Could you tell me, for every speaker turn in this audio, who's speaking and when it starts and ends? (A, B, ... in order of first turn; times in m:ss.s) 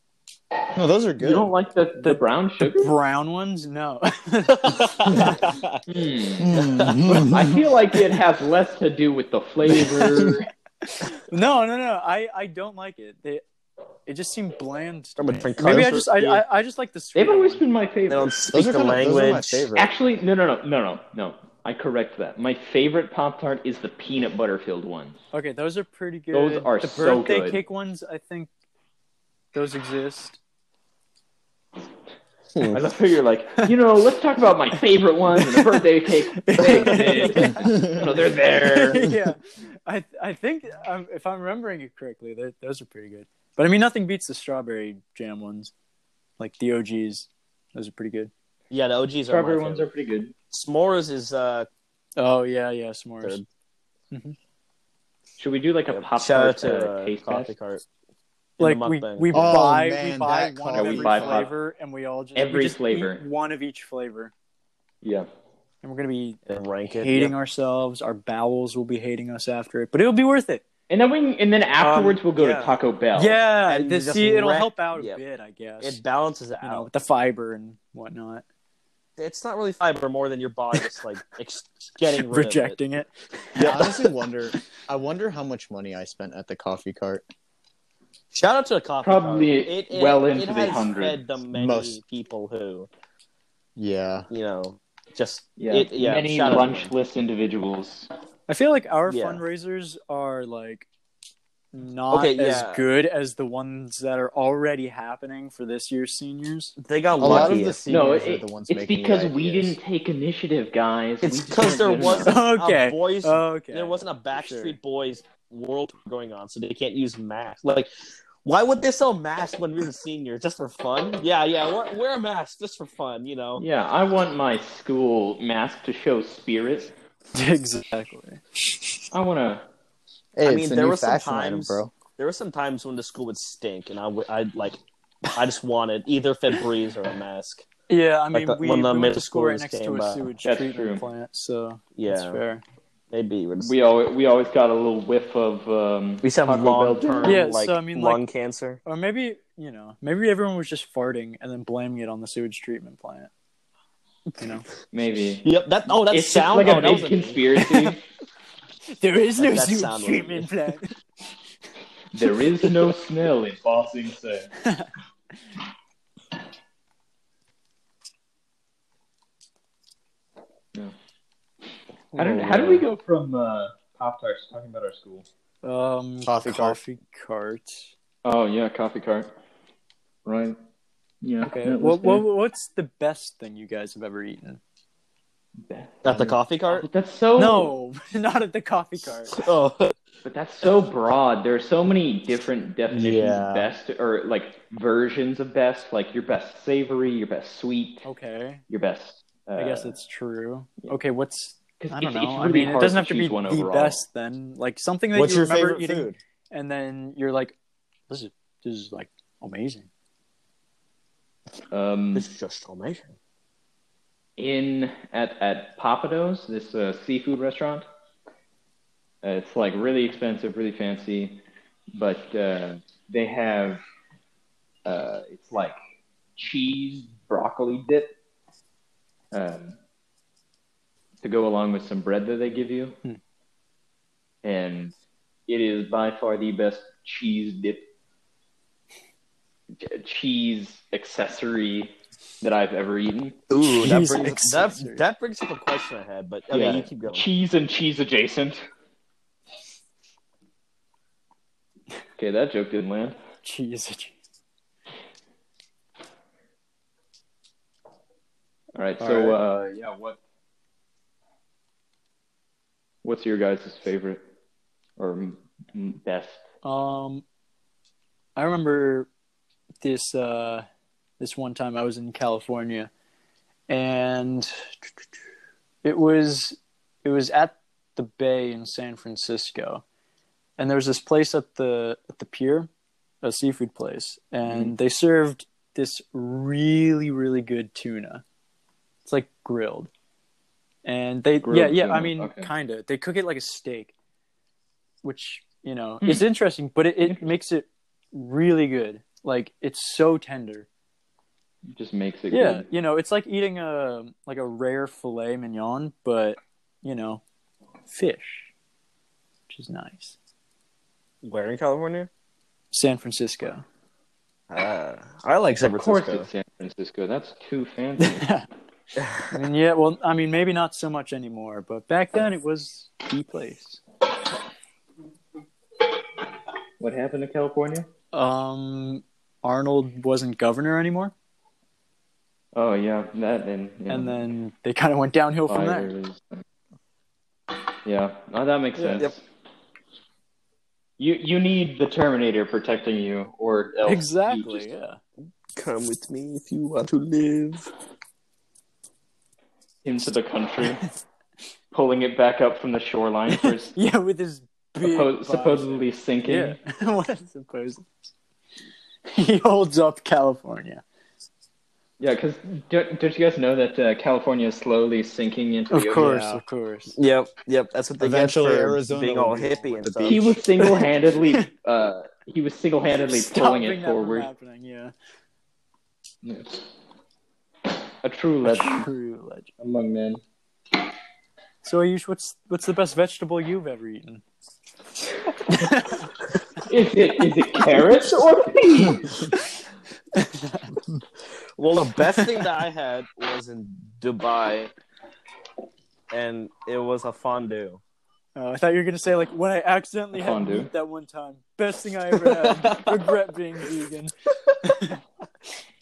0:00.7-0:01.5 A
0:01.2-0:02.9 B
0:02.0-0:05.3 C
0:04.5-0:05.8 D
0:05.9-0:06.5 B
0:06.4-0:07.6 A
0:06.5-0:07.3 D
0:07.1-0:10.5 B
0:09.9-0:10.2 C
0:10.8-0:13.4 C
0:14.1-0:17.6 C
0:15.2-0:16.4 D
0:17.2-0:18.3 B
0:18.1-0:19.7 D
0:18.5-0:19.9 A
0:19.7-0:25.2 B
0:25.3-0:28.5 C
0:26.3-0:27.6 B
0:29.5-0:30.4 C
0:32.5-0:32.8 D
0:32.7-0:39.1 B
0:35.4-0:38.0 C
0:38.6-0:45.7 C
0:46.4-0:48.3 C
0:48.7-0:49.9 D
0:49.3-0:50.3 B
0:50.5-0:51.7 D
0:52.2-0:53.4 C
0:54.1-0:54.4 C
0:55.4-0:57.5 B
0:55.9-0:57.8 D
0:58.6-0:59.6 D
0:58.6-1:04.3 C
0:59.3-1:01.5 A
1:00.7-1:01.5 B
1:02.3-1:03.2 B
1:05.0-1:05.3 B
1:05.8-1:06.4 C
1:06.5-1:07.3 D
1:07.0-1:10.6 C
1:10.9-1:13.4 B
1:11.8-1:12.8 D
1:13.1-1:16.0 C
1:13.6-1:15.2 D
1:15.8-1:16.9 D
1:16.6-1:18.4 C
1:19.2-1:22.8 D
1:22.1-1:24.0 C
1:23.6-1:24.0 D
1:23.6-1:27.2 A
1:28.3-1:32.9 D
1:29.0-1:31.2 B
1:31.5-1:32.0 A
1:33.8-1:34.3 A
1:34.3-1:36.9 D
1:35.6-1:38.1 B
1:38.5-1:40.9 C
1:39.1-1:39.4 D
1:41.7-1:46.7 C
1:42.1-1:42.8 D
1:46.8-1:47.9 D
1:47.2-1:49.8 A
1:47.2-1:52.4 B
1:51.2-1:57.9 D
1:52.2-1:54.8 C
1:58.4-2:03.6 D
2:03.6-2:06.9 B
2:07.3-2:08.4 C
2:09.1-2:09.6 B
2:10.4-2:11.9 A
2:10.4-2:17.6 D
2:17.9-2:22.6 C
2:18.3-2:20.3 D
2:20.4-2:21.0 B
2:21.9-2:22.4 D
2:23.1-2:23.7 D
2:23.6-2:27.4 B
2:26.2-2:28.8 D
2:27.2-2:28.2 C
2:28.8-2:33.3 C
2:34.4-2:34.6 C
2:34.9-2:38.0 B
2:35.4-2:37.4 D
2:37.6-2:38.0 C
2:39.0-2:40.9 C
2:39.4-2:40.5 D
2:42.1-2:44.5 B
2:44.6-2:44.9 C
2:52.1-2:52.8 C
2:52.2-2:55.2 B
2:55.6-2:57.9 C
2:56.2-2:56.8 A
2:58.2-2:59.3 B
3:00.2-3:00.6 B
3:01.2-3:02.2 B
3:01.4-3:04.6 C
3:05.6-3:07.7 B
3:06.0-3:06.9 D
3:07.4-3:09.4 C
3:09.3-3:09.9 D
3:10.2-3:18.1 B
3:12.9-3:13.7 A
3:18.0-3:18.6 C
3:18.7-3:19.9 B
3:19.6-3:27.5 C
3:21.8-3:24.0 B
3:25.2-3:26.1 A
3:25.2-3:26.1 D
3:28.1-3:29.9 C
3:31.7-3:32.3 B
3:32.1-3:33.1 D
3:34.4-3:37.8 B
3:39.2-3:41.4 B
3:41.9-3:43.8 B
3:44.8-3:45.8 B
3:46.4-3:48.1 B
3:49.3-3:49.8 B
3:51.2-3:53.0 B
3:54.4-3:54.9 B
3:55.5-3:57.8 B
3:59.8-4:03.4 B
4:03.5-4:07.2 D
4:03.6-4:05.0 C
4:06.5-4:08.6 B
4:12.2-4:13.2 B
4:13.4-4:14.1 C
4:18.7-4:20.2 B
4:19.0-4:19.4 C
4:23.0-4:24.2 B
4:25.0-4:26.4 B
4:26.6-4:27.2 C
4:28.4-4:29.1 C
4:29.8-4:30.6 C
4:31.2-4:32.9 C
4:33.7-4:34.5 C
4:35.8-4:39.8 C
4:40.6-4:42.7 C
4:43.2-4:48.2 C
4:49.0-4:49.9 C
4:50.8-4:53.9 C
4:51.4-4:52.5 B
4:55.0-5:00.7 C
4:57.0-4:57.3 B
5:01.7-5:02.6 B
5:02.3-5:07.2 C
5:07.9-5:08.5 C
5:09.5-5:10.2 C
5:11.2-5:12.1 D
5:12.7-5:13.6 C
5:14.5-5:16.3 D
5:15.6-5:18.3 B
5:18.0-5:18.4 C
5:19.0-5:19.4 D
5:19.3-5:23.8 C
5:26.8-5:27.9 B
5:28.1-5:31.1 C
5:32.5-5:34.2 B
5:33.9-5:35.9 C
5:35.5-5:36.4 B
5:37.8-5:39.2 B
5:41.0-5:44.6 B
5:43.8-5:45.0 C
5:45.5-5:47.7 D
5:49.8-5:50.8 B
5:51.7-5:53.8 B
5:53.4-5:58.0 C
5:54.8-5:56.6 B
5:59.1-6:00.8 C
6:02.0-6:06.4 B
6:05.7-6:06.9 C
6:06.9-6:10.4 D
6:08.0-6:10.4 A
6:10.0-6:14.3 B
6:13.1-6:14.9 C
6:16.2-6:16.6 B
6:18.0-6:18.9 B
6:18.4-6:19.5 C
6:19.6-6:20.2 B
6:21.6-6:24.2 C
6:25.4-6:26.1 C
6:26.6-6:29.2 B
6:30.1-6:30.7 C
6:31.6-6:34.7 D
6:36.1-6:37.8 D
6:38.4-6:45.0 C
6:40.2-6:40.7 B
6:42.2-6:43.0 D